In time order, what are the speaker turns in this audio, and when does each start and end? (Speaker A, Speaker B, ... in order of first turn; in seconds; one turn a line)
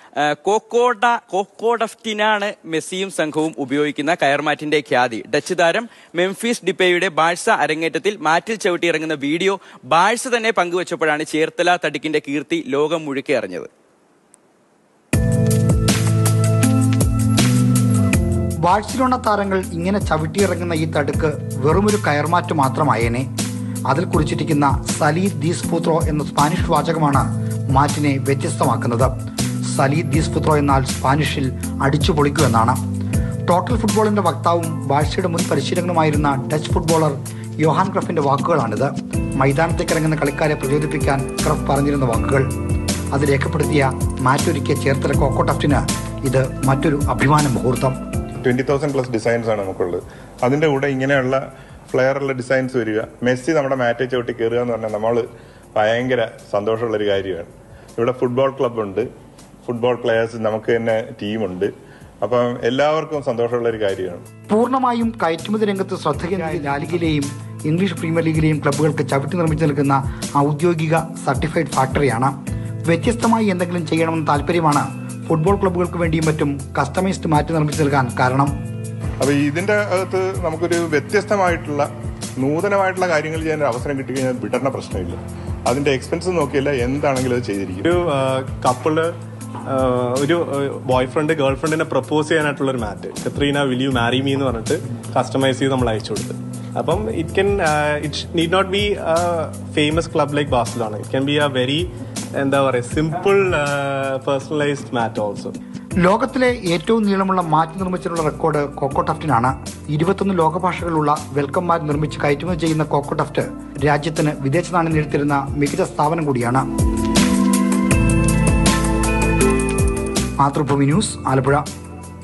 Speaker A: 0.3-13.7
Speaker B: 18.6-23.3
Speaker B: 23.9-29.1
Speaker B: 29.7-32.8
Speaker B: 33.5-42.5
Speaker B: 43.1-48.0
Speaker C: 48.4-59.1
Speaker C: 59.7-61.7
Speaker C: 62.2-64.2
Speaker B: 64.5-72.3
Speaker B: 72.9-78.5
Speaker C: 79.2-81.9
Speaker C: 82.4-87.9
Speaker D: 87.8-89.1
Speaker D: 89.7-105.5
Speaker B: 106.0-116.7
Speaker B: 120.4-121.7